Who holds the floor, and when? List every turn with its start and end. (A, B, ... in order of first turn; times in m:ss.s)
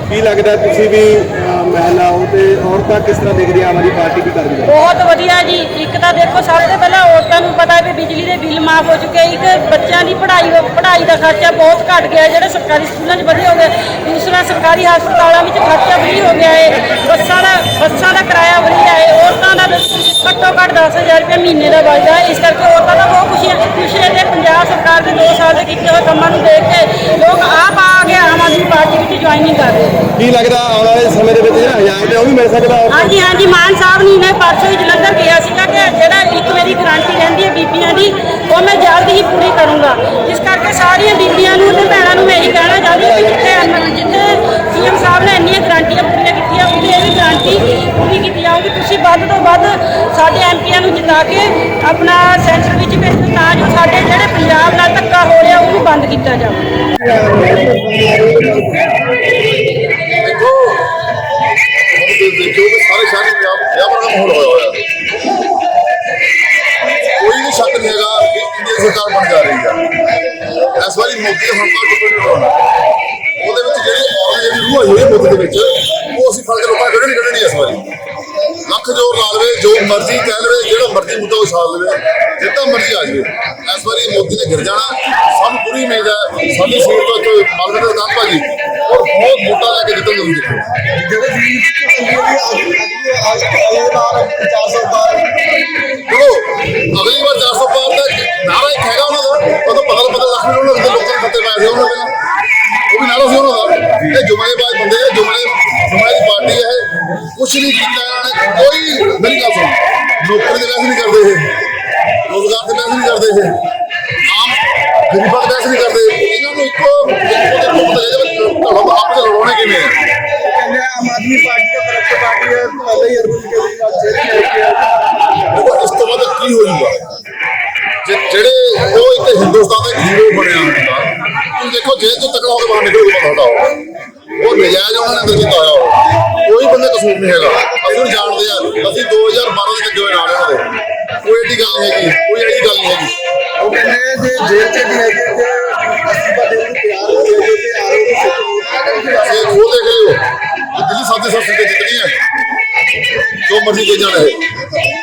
0:00.1-0:04.7 A
0:04.6-0:30.1 B
0:30.2-0:33.1 A
0:32.9-0:56.7 B
0:57.0-0:58.9 C
1:00.2-1:00.9 D
1:01.9-1:04.9 D
1:07.2-1:09.9 D
1:10.5-1:12.6 D
1:13.4-1:17.9 D
1:18.6-1:30.7 D
1:30.9-1:35.3 C
1:36.1-1:42.1 D
1:42.9-1:51.6 D
1:52.2-1:53.6 D
1:54.2-2:00.0 D
2:00.4-2:05.0 C
2:05.5-2:07.0 D
2:08.0-2:13.8 D
2:14.4-2:23.2 D
2:23.6-2:29.2 C
2:29.1-2:32.2 D
2:33.4-2:34.5 D